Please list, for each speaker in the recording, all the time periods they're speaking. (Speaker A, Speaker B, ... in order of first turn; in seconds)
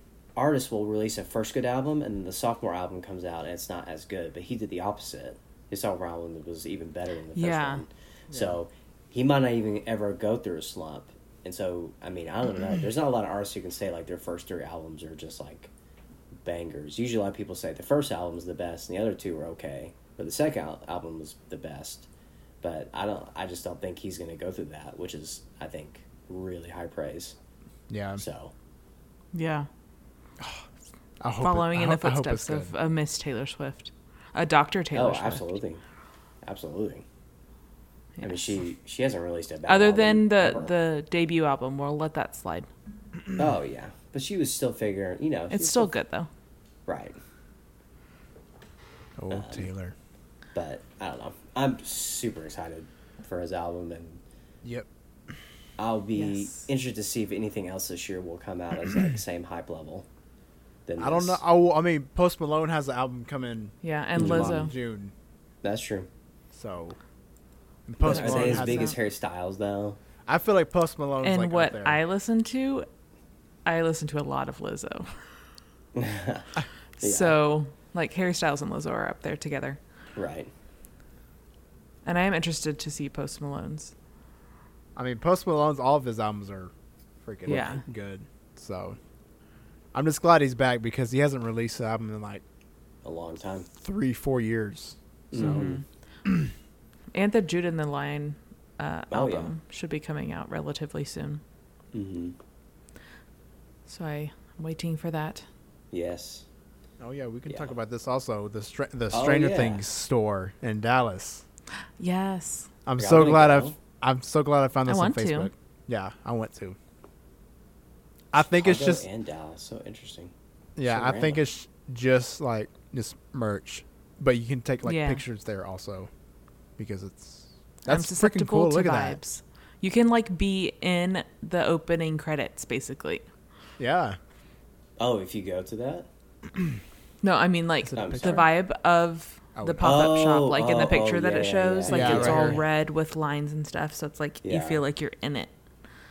Speaker A: 0.3-15.7, 16.4-22.1, 22.6-27.4, 28.2-28.5, 34.9-35.8, 36.4-37.0, 38.2-40.7, 43.4-45.9, 46.9-47.2, 49.3-49.7, 50.5-54.2, 55.8-60.1, 60.9-61.4, 64.2-64.7, 65.6-66.1, 68.0-70.0, 75.9-77.4, 80.1-80.5, 87.5-87.8, 93.0-93.7, 95.3-95.8, 99.1-99.5, 101.9-102.3, 105.9-106.5, 107.5-107.7, 109.1-109.8, 113.0-113.8, 118.3-121.4, 135.0-136.1, 137.9-138.5, 139.8-142.7, 144.4-144.8
Speaker B: 7.3-7.8, 29.3-29.7, 31.4-35.5, 38.2-38.6, 39.7-42.7, 45.5-46.3, 56.1-56.7, 63.8-64.7, 68.0-69.0, 71.2-72.9, 73.7-75.1, 77.0-79.8, 82.0-83.9, 87.5-87.8, 95.3-95.8, 97.1-101.4, 103.9-105.5, 112.0-112.7, 114.9-115.5, 124.8-125.2, 127.9-133.2, 137.2-145.5
Speaker C: 8.3-8.6, 27.9-28.2, 30.4-30.7, 31.2-32.7, 49.2-49.9, 61.0-65.1, 66.5-67.0, 67.8-68.9, 70.3-72.0, 85.0-89.0, 89.9-92.4, 93.8-95.7, 96.2-96.5, 107.0-111.4, 112.8-116.8, 118.3-119.0, 120.8-126.1, 126.8-129.2, 133.8-134.2, 137.8-138.5, 139.6-139.9, 141.9-142.6